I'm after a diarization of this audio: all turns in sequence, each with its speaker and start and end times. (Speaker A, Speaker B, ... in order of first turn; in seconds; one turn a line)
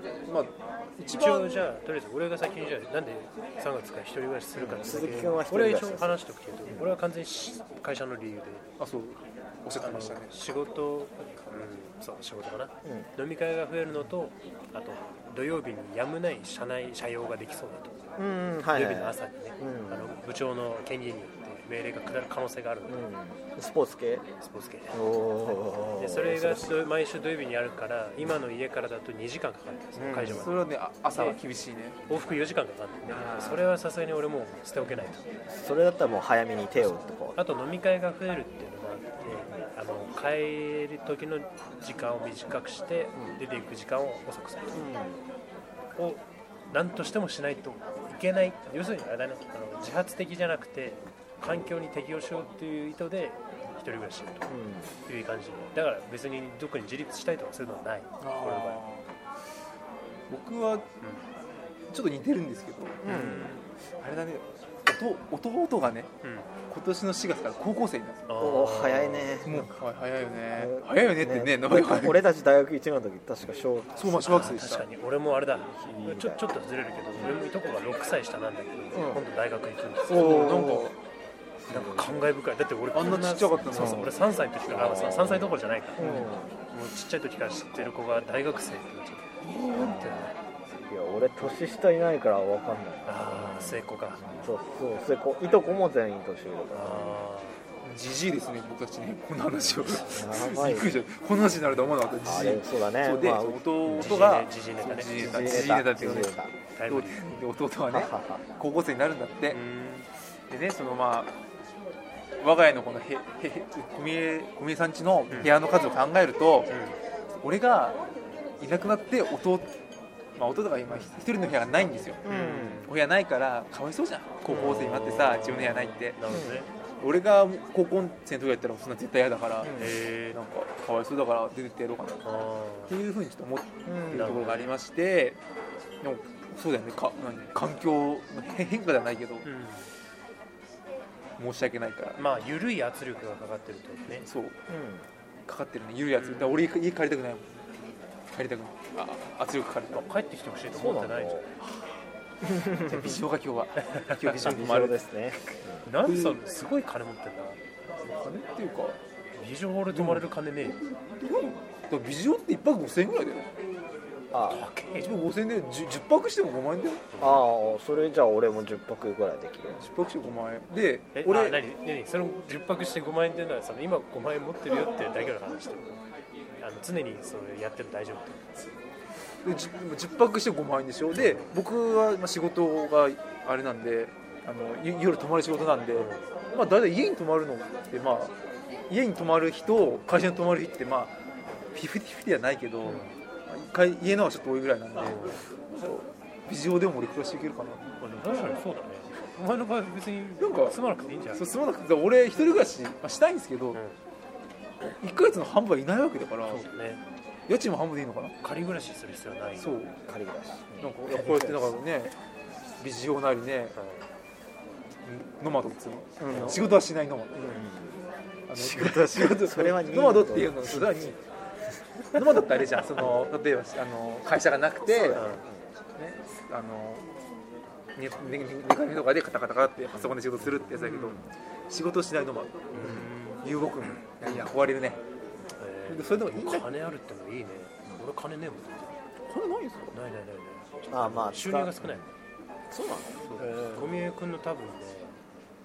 Speaker A: 0.2-1.7
Speaker B: 1.1-8.7
Speaker C: 4.6-6.9
Speaker A: 8.8-10.3
Speaker B: 9.8-18.1
Speaker C: 12.8-13.1
Speaker C: 18.2-20.2
Speaker B: 18.7-23.1
Speaker C: 22.9-24.2
Speaker B: 24.4-25.0
Speaker C: 24.9-26.8
Speaker B: 26.0-31.4
Speaker C: 30.0-30.5
Speaker A: 30.3-32.0
Speaker B: 32.1-35.2
Speaker A: 33.1-33.7
Speaker C: 35.5-37.4
Speaker B: 37.4-44.8
Speaker C: 43.1-43.4
Speaker C: 44.7-45.2
Speaker B: 46.0-54.5
Speaker C: 54.5-54.9
Speaker B: 55.0-58.8
Speaker A: 58.2-59.1
Speaker A: 60.3-60.9
Speaker B: 61.0-61.3
Speaker A: 61.9-66.1
Speaker C: 63.0-63.4
Speaker B: 63.1-63.7
Speaker B: 66.2-66.5
Speaker A: 66.7-68.2
Speaker B: 68.3-69.4
Speaker C: 68.4-69.7
Speaker A: 69.4-72.3
Speaker C: 70.5-74.2
Speaker A: 74.0-74.9
Speaker B: 74.2-80.5
Speaker C: 75.8-76.4
Speaker C: 78.9-79.2
Speaker A: 80.1-81.0
Speaker C: 80.2-80.9
Speaker C: 81.7-82.1
Speaker B: 81.7-90.3
Speaker A: 82.9-85.1
Speaker C: 84.7-86.5
Speaker A: 89.4-90.1
Speaker C: 89.8-97.3
Speaker B: 93.0-94.2
Speaker B: 96.7-97.6
Speaker A: 97.8-106.3
Speaker C: 100.0-101.0
Speaker C: 102.2-104.2
Speaker B: 104.0-105.7
Speaker C: 105.1-106.5
Speaker B: 106.7-107.3
Speaker A: 106.9-109.6
Speaker C: 107.9-108.4
Speaker B: 109.5-110.1
Speaker A: 110.5-111.3
Speaker A: 112.4-116.7
Speaker B: 116.7-117.0
Speaker A: 117.4-118.0
Speaker A: 118.6-119.7
Speaker A: 120.4-122.3
Speaker C: 122.2-122.9
Speaker B: 122.3-122.9
Speaker A: 122.8-126.2
Speaker B: 124.5-126.7
Speaker C: 126.3-126.7
Speaker A: 127.0-129.8
Speaker C: 129.6-130.0
Speaker B: 129.7-130.4
Speaker A: 130.3-132.2
Speaker B: 132.2-133.0
Speaker A: 132.9-135.4
Speaker C: 133.9-134.3
Speaker B: 134.1-134.7
Speaker A: 136.0-139.5
Speaker B: 139.4-139.9
Speaker A: 141.4-142.2
Speaker B: 142.2-144.3
Speaker A: 144.1-144.6
Speaker C: 144.7-145.1
Speaker A: 145.5-147.5
Speaker B: 146.2-146.7
Speaker A: 148.3-150.0
Speaker B: 149.9-151.4
Speaker C: 150.7-151.5
Speaker C: 152.4-153.2
Speaker A: 152.9-155.0
Speaker B: 153.8-154.8
Speaker C: 154.4-155.9
Speaker B: 155.9-157.6
Speaker A: 156.0-156.4
Speaker A: 158.0-159.0
Speaker B: 159.3-160.9
Speaker A: 159.9-160.3
Speaker A: 161.2-163.5
Speaker C: 164.3-164.7
Speaker B: 164.5-165.2
Speaker A: 165.0-167.1
Speaker B: 167.1-167.4
Speaker C: 167.2-169.8
Speaker A: 169.7-171.6
Speaker B: 171.1-176.0
Speaker B: 176.6-178.4
Speaker A: 179.4-188.3
Speaker B: 181.2-181.4
Speaker B: 185.9-186.2
Speaker A: 188.9-191.2
Speaker A: 191.7-197.9
Speaker B: 192.8-193.2
Speaker B: 195.0-195.4
Speaker B: 198.0-201.4
Speaker A: 200.4-200.8
Speaker A: 201.3-203.8
Speaker A: 204.8-206.7
Speaker B: 206.4-207.0
Speaker A: 207.5-208.3
Speaker B: 208.4-209.7
Speaker A: 209.6-210.0
Speaker C: 210.0-211.8
Speaker A: 210.8-212.1
Speaker A: 212.8-213.8
Speaker B: 213.8-214.1
Speaker A: 215.1-217.4
Speaker C: 216.2-216.7
Speaker B: 216.3-216.6
Speaker C: 217.3-218.0
Speaker A: 218.5-221.2
Speaker C: 218.5-220.9
Speaker A: 222.1-225.3
Speaker C: 223.0-223.3
Speaker C: 225.0-225.7
Speaker B: 225.1-225.5
Speaker A: 226.0-227.1
Speaker A: 228.0-235.0
Speaker C: 230.8-231.2
Speaker B: 232.7-233.4
Speaker C: 234.2-234.5
Speaker B: 235.6-238.9
Speaker A: 235.9-236.7
Speaker A: 239.3-239.9
Speaker B: 239.9-242.1
Speaker C: 240.9-242.1
Speaker C: 242.7-244.0
Speaker B: 243.2-245.2